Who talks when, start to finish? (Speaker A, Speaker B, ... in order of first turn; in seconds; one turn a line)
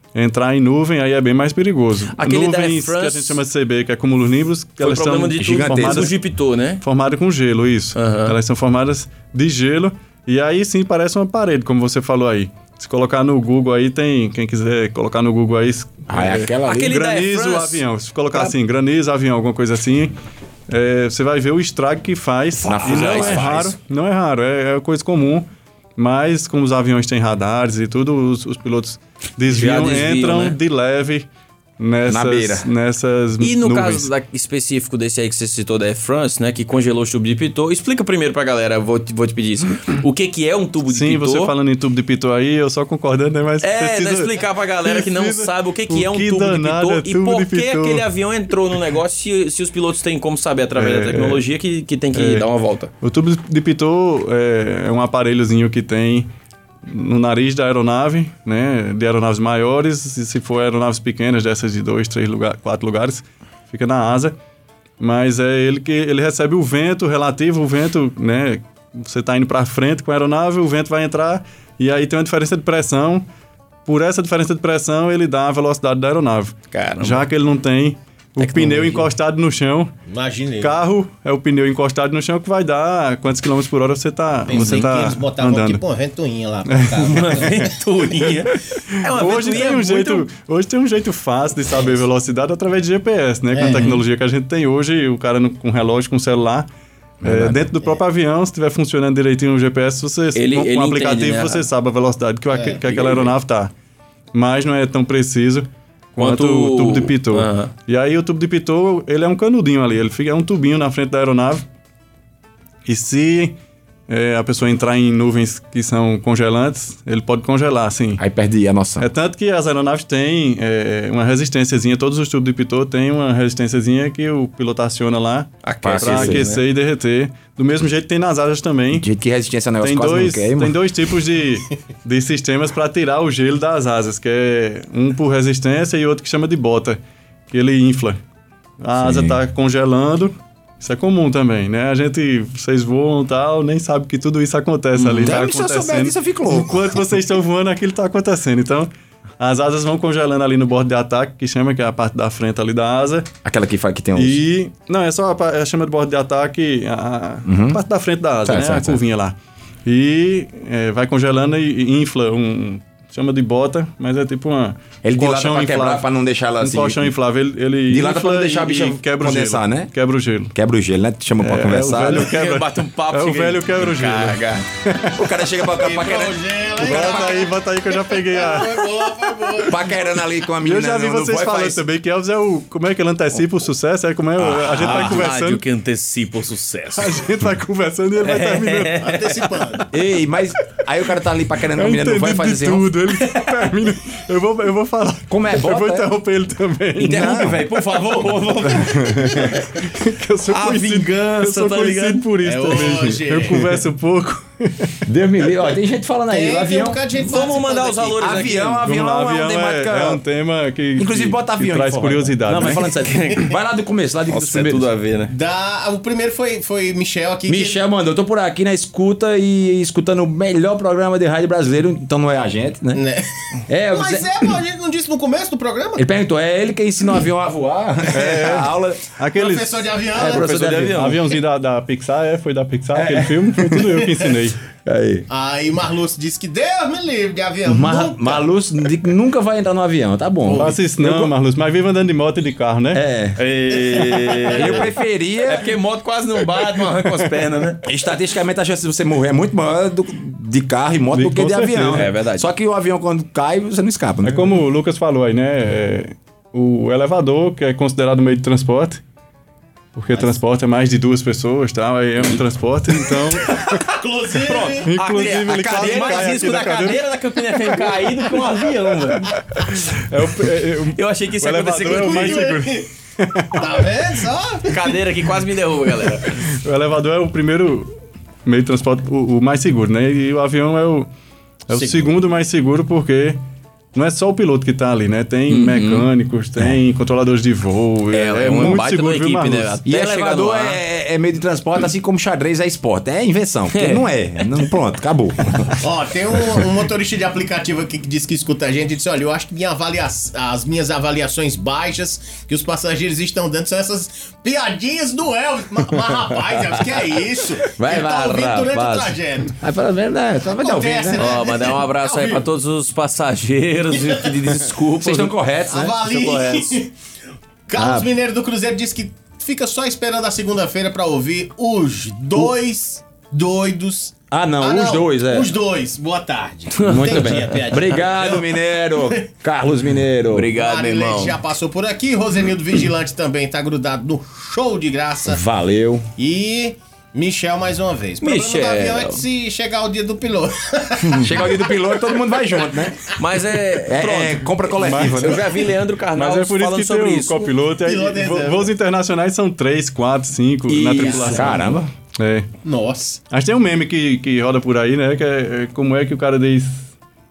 Speaker A: 0.1-6.2
Speaker B: 2.1-3.4
Speaker B: 4.8-6.8
Speaker C: 5.4-6.1
Speaker A: 6.8-20.1
Speaker B: 8.0-8.3
Speaker C: 16.1-17.0
Speaker B: 16.6-18.6
Speaker A: 20.7-31.3
Speaker B: 22.6-23.7
Speaker C: 22.6-23.7
Speaker B: 29.5-30.6
Speaker A: 31.8-34.1
Speaker C: 32.1-32.7
Speaker B: 33.4-41.5
Speaker A: 40.9-48.0
Speaker B: 43.6-52.9
Speaker A: 50.8-51.4
Speaker A: 52.1-52.5
Speaker A: 53.0-56.3
Speaker A: 56.9-64.3
Speaker A: 65.0-73.2
Speaker A: 73.9-79.9
Speaker B: 76.7-77.2
Speaker B: 78.4-79.1
Speaker D: 80.1-80.8
Speaker A: 80.6-85.8
Speaker D: 84.5-87.7
Speaker B: 84.5-84.9
Speaker A: 86.7-87.5
Speaker B: 87.1-90.3
Speaker A: 89.1-96.7
Speaker D: 93.5-94.0
Speaker C: 97.2-97.7
Speaker A: 97.2-103.7
Speaker B: 100.3-101.6
Speaker D: 102.5-102.8
Speaker B: 102.9-103.3
Speaker A: 104.3-111.6
Speaker B: 106.2-107.7
Speaker A: 112.9-113.5
Speaker A: 114.1-118.2
Speaker C: 118.2-119.1
Speaker A: 119.0-129.1
Speaker B: 125.6-126.6
Speaker C: 125.8-126.6
Speaker C: 128.9-130.8
Speaker A: 129.8-137.0
Speaker A: 137.5-138.2
Speaker A: 138.8-148.9
Speaker C: 139.0-139.4
Speaker B: 145.0-145.3
Speaker C: 145.2-147.0
Speaker A: 149.4-153.3
Speaker C: 153.4-154.4
Speaker A: 154.2-159.3
Speaker C: 157.5-157.8
Speaker C: 158.4-159.0
Speaker A: 159.9-166.0
Speaker C: 165.0-167.1
Speaker A: 166.6-170.5
Speaker C: 167.9-169.9
Speaker C: 170.5-172.3
Speaker A: 171.4-175.2
Speaker B: 172.1-174.7
Speaker C: 175.1-177.3
Speaker D: 175.8-179.9
Speaker A: 176.8-179.6
Speaker C: 179.6-181.8
Speaker A: 180.6-185.6
Speaker B: 184.4-187.2
Speaker C: 184.7-185.3
Speaker A: 187.0-189.8
Speaker B: 188.2-189.3
Speaker D: 189.0-189.9
Speaker C: 189.9-192.9
Speaker A: 191.7-197.7
Speaker C: 195.3-196.1
Speaker B: 197.0-199.6
Speaker C: 197.0-197.6
Speaker A: 198.8-205.0
Speaker C: 198.9-199.4
Speaker B: 200.5-202.3
Speaker D: 202.4-203.7
Speaker C: 205.1-207.0
Speaker D: 206.3-208.5
Speaker B: 207.2-208.8
Speaker C: 208.2-210.2
Speaker A: 208.8-212.9
Speaker C: 211.0-214.9
Speaker B: 213.0-213.5
Speaker B: 214.3-215.3
Speaker D: 215.3-217.8
Speaker C: 217.5-223.0
Speaker D: 222.9-223.3
Speaker C: 223.7-224.6
Speaker D: 223.9-226.1
Speaker C: 226.0-229.0
Speaker A: 228.1-230.0
Speaker D: 229.4-230.5
Speaker C: 230.2-231.1
Speaker B: 230.2-231.2
Speaker A: 230.9-234.6
Speaker C: 232.9-234.2
Speaker C: 234.8-235.3
Speaker D: 235.3-238.5
Speaker C: 237.7-241.3
Speaker B: 240.5-240.8
Speaker A: 240.5-243.0
Speaker C: 242.9-245.7
Speaker B: 243.4-244.9
Speaker D: 244.0-244.6
Speaker B: 245.4-247.8
Speaker C: 247.8-254.6
Speaker A: 251.1-252.1
Speaker B: 251.9-252.5
Speaker A: 254.2-259.0
Speaker A: 260.0-263.8
Speaker D: 263.6-264.9
Speaker B: 264.4-269.4
Speaker A: 264.9-267.1
Speaker C: 265.5-266.3
Speaker A: 269.6-273.9
Speaker B: 270.9-272.5
Speaker D: 271.9-272.9
Speaker D: 273.5-274.9
Speaker B: 274.7-276.4
Speaker A: 276.3-277.9
Speaker A: 278.4-281.1
Speaker A: 281.7-283.4
Speaker D: 281.7-282.1
Speaker A: 283.9-289.8
Speaker B: 285.5-286.1
Speaker B: 288.1-290.8
Speaker C: 289.9-295.8
Speaker B: 293.7-294.1
Speaker D: 295.8-309.6
Speaker C: 307.8-311.4
Speaker D: 310.6-312.4
Speaker B: 311.2-315.3
Speaker D: 313.9-314.3
Speaker C: 315.0-316.3
Speaker D: 315.7-316.9
Speaker B: 316.0-316.8
Speaker D: 317.7-329.2
Speaker C: 317.8-318.1
Speaker C: 324.3-325.6
Speaker B: 326.8-327.6
Speaker C: 326.8-330.5
Speaker B: 330.3-331.4
Speaker D: 330.5-335.4
Speaker C: 335.3-336.1
Speaker D: 336.2-342.0
Speaker B: 338.2-339.2
Speaker C: 341.2-343.1
Speaker B: 343.2-347.5
Speaker C: 343.9-345.5
Speaker A: 344.8-345.4
Speaker A: 346.1-352.5
Speaker D: 347.9-348.7
Speaker B: 350.7-351.4
Speaker C: 351.0-351.9
Speaker D: 351.0-351.4
Speaker D: 352.6-353.2
Speaker A: 353.3-356.8